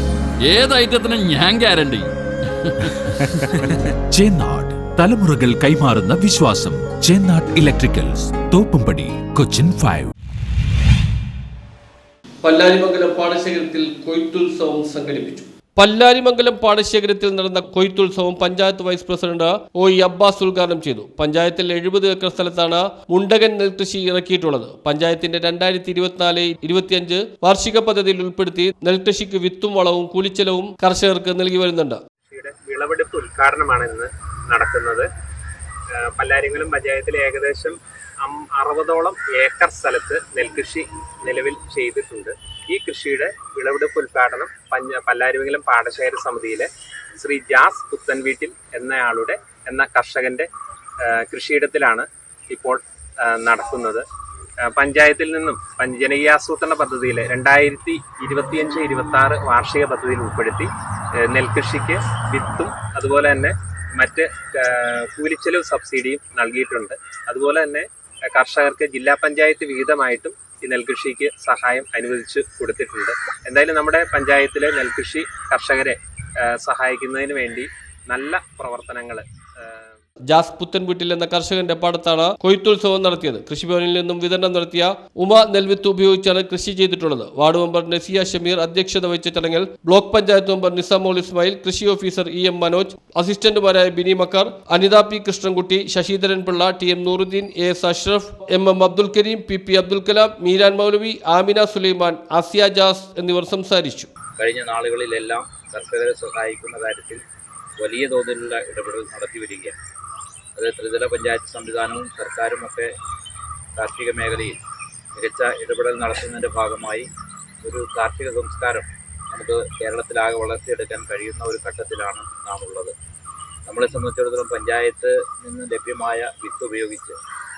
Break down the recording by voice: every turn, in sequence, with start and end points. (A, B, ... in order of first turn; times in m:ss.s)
0:00.4-0:03.5 A
0:04.1-0:10.1 B
0:12.4-0:32.0 C
0:32.3-0:35.1 D
0:36.2-0:46.7 D
0:47.2-0:50.5 D
0:51.0-0:54.0 D
0:54.8-1:00.7 D
1:01.3-1:16.0 D
1:16.6-1:19.9 D
1:20.3-1:44.1 C
1:44.4-1:47.2 E
1:47.8-1:49.8 E
1:50.6-1:52.9 E
1:53.8-1:54.6 E
1:55.2-1:57.1 E
1:57.6-2:03.0 E
2:03.7-2:07.2 E